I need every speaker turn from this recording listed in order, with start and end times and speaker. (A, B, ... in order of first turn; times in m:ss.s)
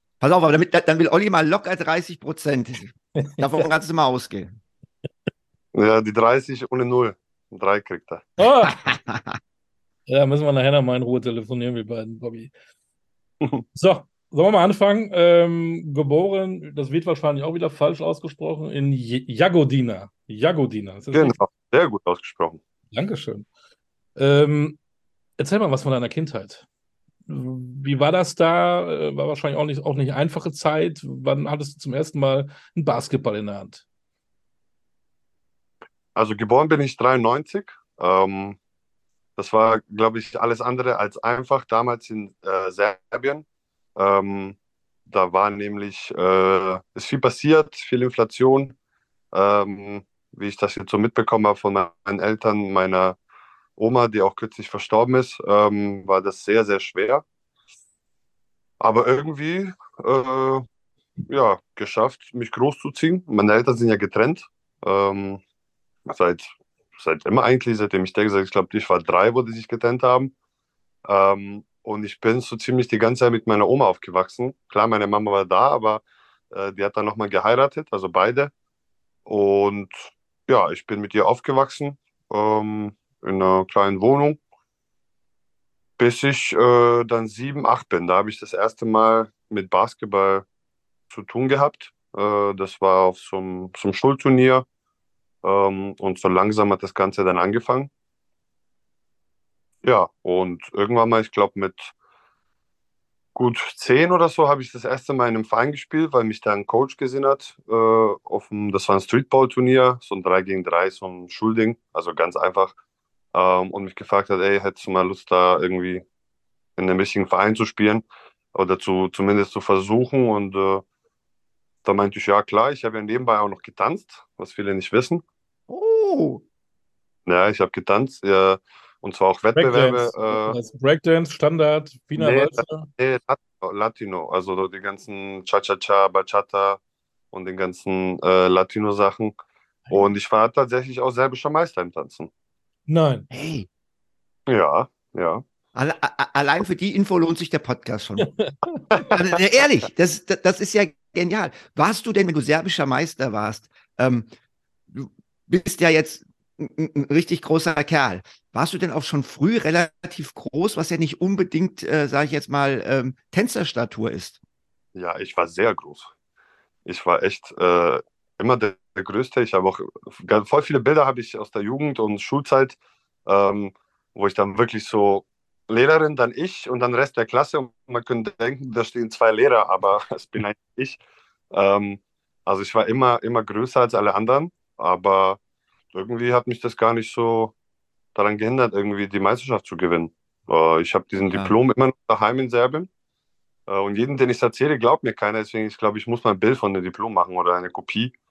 0:00.2-0:04.6 A
0:05.7-0:08.3 B
0:08.4-0:08.8 C
0:08.7-0:09.4 A
0:10.1-0:12.5 C
0:13.7-0:21.4 C
0:21.1-0:22.6 B
0:22.9-0:23.5 C
0:24.2-0:24.8 C
0:25.4-0:26.6 C
0:27.3-0:33.8 C
0:36.2-0:38.6 B
0:39.4-0:43.4 B
0:44.0-0:44.6 B
0:45.1-0:48.8 B
0:49.3-0:53.2 B
0:53.8-0:57.2 B
0:58.8-1:00.6 B
1:01.3-1:05.4 B
1:06.1-1:10.3 B
1:11.1-1:18.5 B
1:19.3-1:24.4 B
1:26.0-1:30.5 B
1:31.1-1:34.6 B
1:35.4-1:37.9 B
1:39.8-1:41.9 B
1:43.4-1:52.7 B
1:53.3-1:56.0 B
1:56.8-2:00.8 B
2:01.8-2:05.2 B
2:05.7-2:06.4 A
2:07.3-2:10.6 B
2:09.6-2:12.9 C
2:12.2-2:16.8 B
2:17.3-2:19.3 B
2:19.9-2:22.3 B
2:22.9-2:23.3 C
2:23.3-2:23.7 A
2:24.5-2:25.4 B
2:25.8-2:28.3 A
2:28.2-2:28.9 C
2:29.1-2:34.3 A
2:34.9-2:44.4 A
2:45.0-2:46.1 B
2:46.9-3:01.0 B
3:01.5-3:05.4 B
3:05.9-3:07.5 B
3:08.2-3:12.9 B
3:13.7-3:18.1 B